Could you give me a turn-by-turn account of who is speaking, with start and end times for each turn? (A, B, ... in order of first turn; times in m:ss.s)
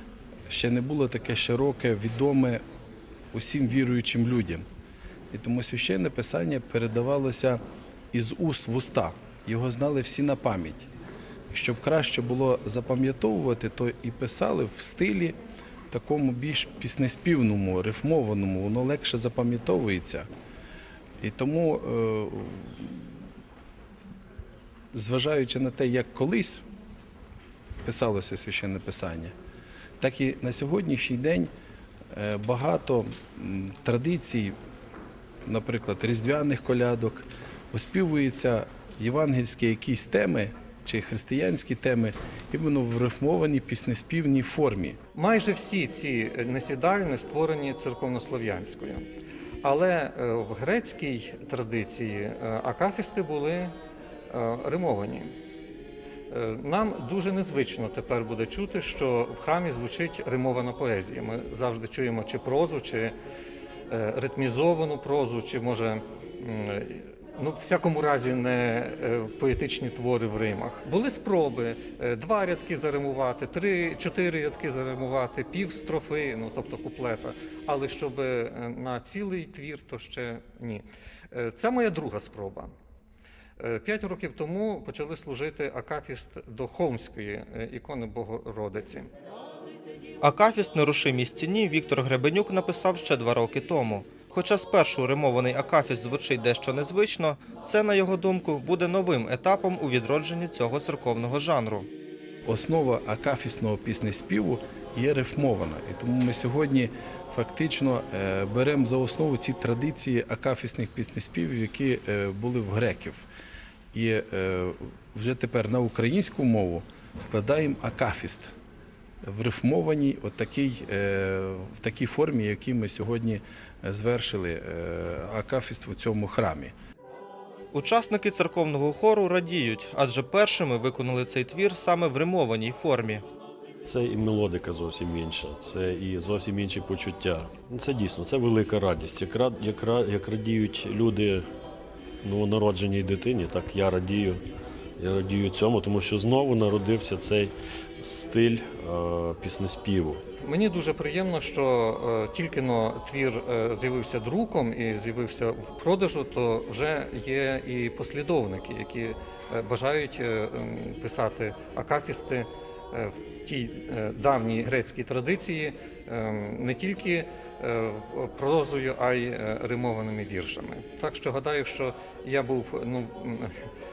0:00.5-0:02.6 A
0:03.3-0:04.6 A
0:05.3-0:07.6 A
0:08.1-0:10.9 A
0:11.5-0:15.4 A
0:15.9-0:20.3 A
0:21.2-0:23.1 A
0:24.9-0:26.6 A
0:27.8-0:29.3 A
0:30.0-0:31.5 A
0:32.1-0:34.5 A
0:35.4-0:45.0 A
0:45.1-0:49.0 B
0:49.6-0:53.7 B
0:54.3-0:55.3 B
0:56.3-1:03.1 B
1:03.9-1:22.7 B
1:23.6-1:29.1 B
1:30.2-1:41.8 C
1:42.4-1:53.3 A
1:53.9-1:58.5 A
1:59.2-2:06.7 A
2:07.7-2:13.2 C
2:13.8-2:21.4 D
2:22.2-2:24.4 D
2:25.0-2:30.2 D
2:30.4-2:53.5 B